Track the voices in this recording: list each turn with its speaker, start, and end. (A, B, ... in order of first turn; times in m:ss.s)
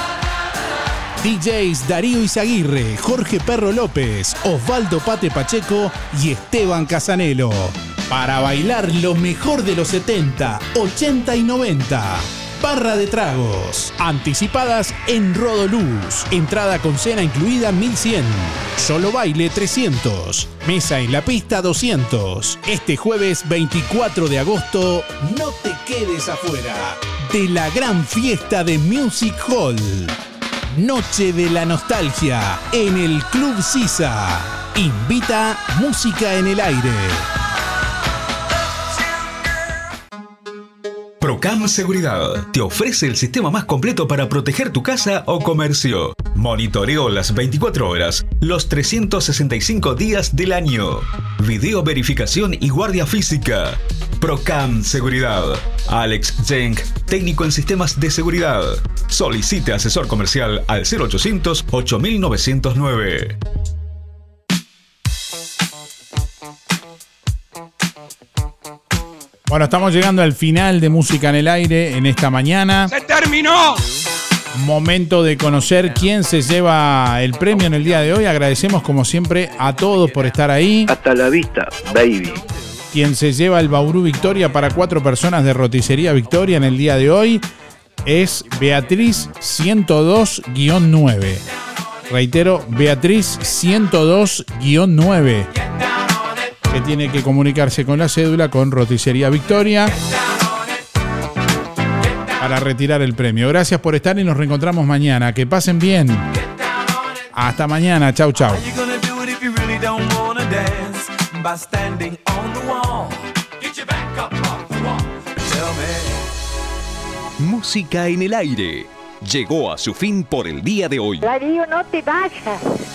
0:01.2-0:30.2 A
0:30.7-0:37.3 A
0:41.2-1:03.4 B
1:09.5-1:12.9 A
1:14.5-1:20.9 A
1:20.9-1:22.4 C
1:22.9-1:27.4 A
1:28.0-1:31.4 A
1:32.1-1:35.5 A
1:36.7-1:40.0 A
1:42.4-1:46.3 A
1:47.3-1:48.7 A
1:48.8-1:53.0 C
1:55.6-1:55.9 C
1:57.4-2:01.2 B